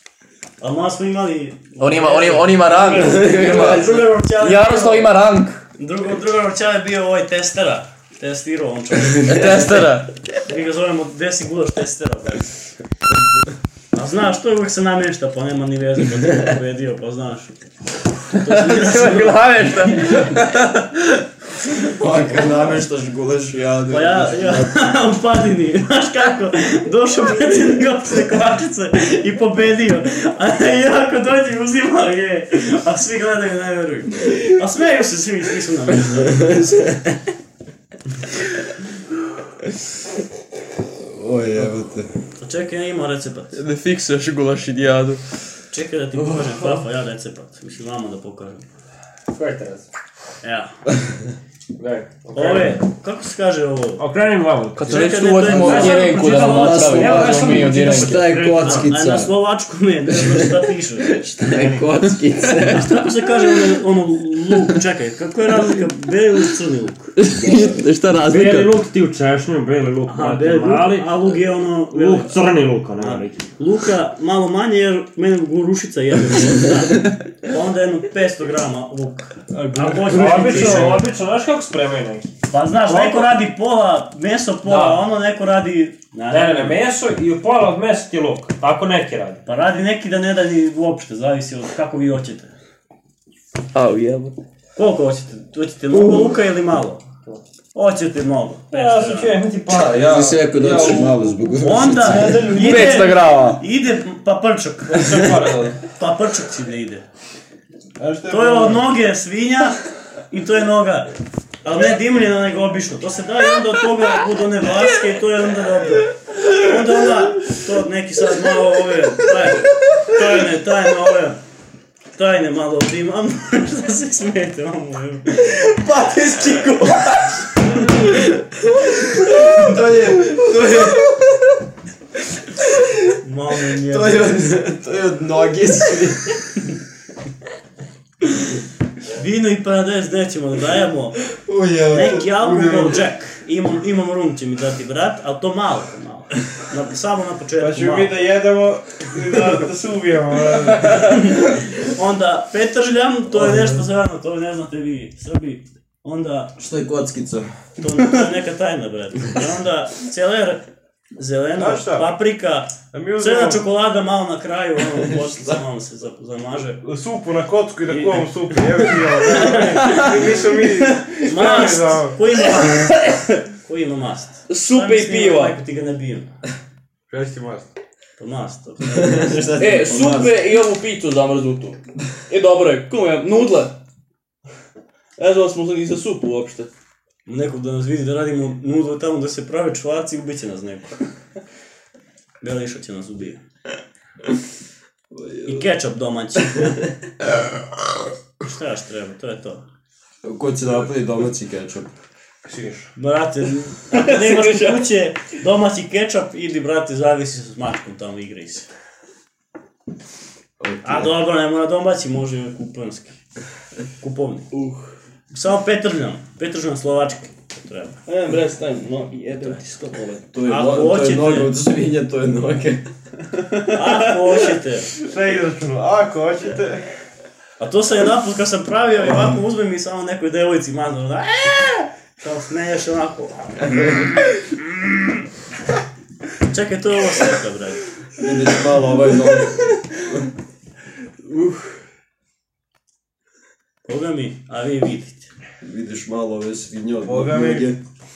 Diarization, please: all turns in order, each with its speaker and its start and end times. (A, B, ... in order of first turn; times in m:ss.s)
0:00.6-0:05.1 A
0:01.8-0:05.6 B
0:03.4-0:03.8 C
0:05.8-0:09.8 A
0:09.2-0:09.6 C
0:09.2-0:10.1 B
0:10.4-0:12.5 A
0:13.9-0:17.5 A
0:18.3-0:19.7 A
0:18.4-0:20.9 B
0:21.7-0:24.9 C
0:23.9-0:37.0 A
0:36.1-0:37.0 C
0:41.0-0:42.1 C
0:42.4-0:43.6 A
0:43.5-0:45.2 B
0:45.7-0:48.7 A
0:49.3-0:49.9 D
0:50.4-0:50.7 A
0:51.8-0:52.8 D
0:52.3-0:54.0 A
0:54.0-0:58.8 D
0:54.8-0:58.3 B
0:54.9-0:57.0 A
0:56.3-0:59.3 C
0:58.6-1:01.2 A
1:00.1-1:03.0 C
1:01.4-1:01.9 D
1:02.0-1:02.7 B
1:02.7-1:07.1 A
1:07.2-1:08.7 C
1:07.2-1:08.5 B
1:08.2-1:13.4 D
1:10.1-1:12.4 A
1:12.9-1:21.0 A
1:19.7-1:22.3 D
1:20.6-1:20.9 E
1:22.5-1:26.8 A
1:22.8-1:23.3 D
1:24.6-1:25.0 D
1:26.3-1:29.4 D
1:29.4-1:32.5 A
1:33.7-1:34.4 B
1:34.8-1:37.0 A
1:37.7-1:39.4 A
1:38.7-1:43.1 D
1:39.7-1:42.5 C
1:41.6-1:47.0 A
1:42.4-1:43.6 B
1:45.2-1:45.7 D
1:48.0-1:48.9 E
1:48.3-1:51.1 A
1:51.6-2:01.4 A
2:02.1-2:06.9 A
2:07.6-2:08.1 A
2:08.8-2:11.4 C
2:09.4-2:09.7 A
2:12.6-2:13.0 C
2:13.2-2:14.3 A
2:13.8-2:16.4 C
2:19.0-2:21.2 A
2:21.3-2:23.0 C
2:21.9-2:28.1 A
2:27.6-2:31.4 E
2:30.9-2:36.6 A
2:33.3-2:33.8 C
2:36.6-2:37.5 C
2:37.8-2:40.6 A
2:41.2-2:46.8 A
2:41.6-2:42.2 E
2:42.9-2:43.6 E
2:45.0-2:45.6 C
2:46.8-2:52.2 E
2:47.9-2:48.2 A
2:49.2-2:50.1 A
2:51.2-2:53.0 A
2:52.9-2:53.4 B
2:53.6-2:56.3 A
2:54.5-2:55.5 B
2:57.1-2:57.7 E
2:58.2-2:59.6 A
2:58.8-3:00.3 C
2:59.6-3:03.8 B
3:05.2-3:06.7 B
3:07.2-3:11.0 A
3:12.4-3:13.4 A
3:15.1-3:15.7 C
3:15.4-3:16.8 A
3:18.4-3:19.6 A
3:20.2-3:21.9 C
3:22.4-3:22.9 E
3:23.0-3:28.7 A
3:23.9-3:24.9 B
3:30.6-3:31.2 C
3:30.8-3:33.2 A
3:34.0-3:34.5 A
3:34.5-3:34.9 B
3:35.3-3:38.0 A
3:38.1-3:40.2 B
3:40.3-3:42.8 C
3:40.4-3:41.5 A
3:43.4-3:44.1 B
3:43.7-3:44.9 A
3:45.0-3:46.8 E
3:47.6-3:54.0 A
3:56.4-3:57.9 A
3:58.2-4:00.3 C
4:03.8-4:05.3 A
4:05.6-4:07.8 C
4:07.0-4:07.7 E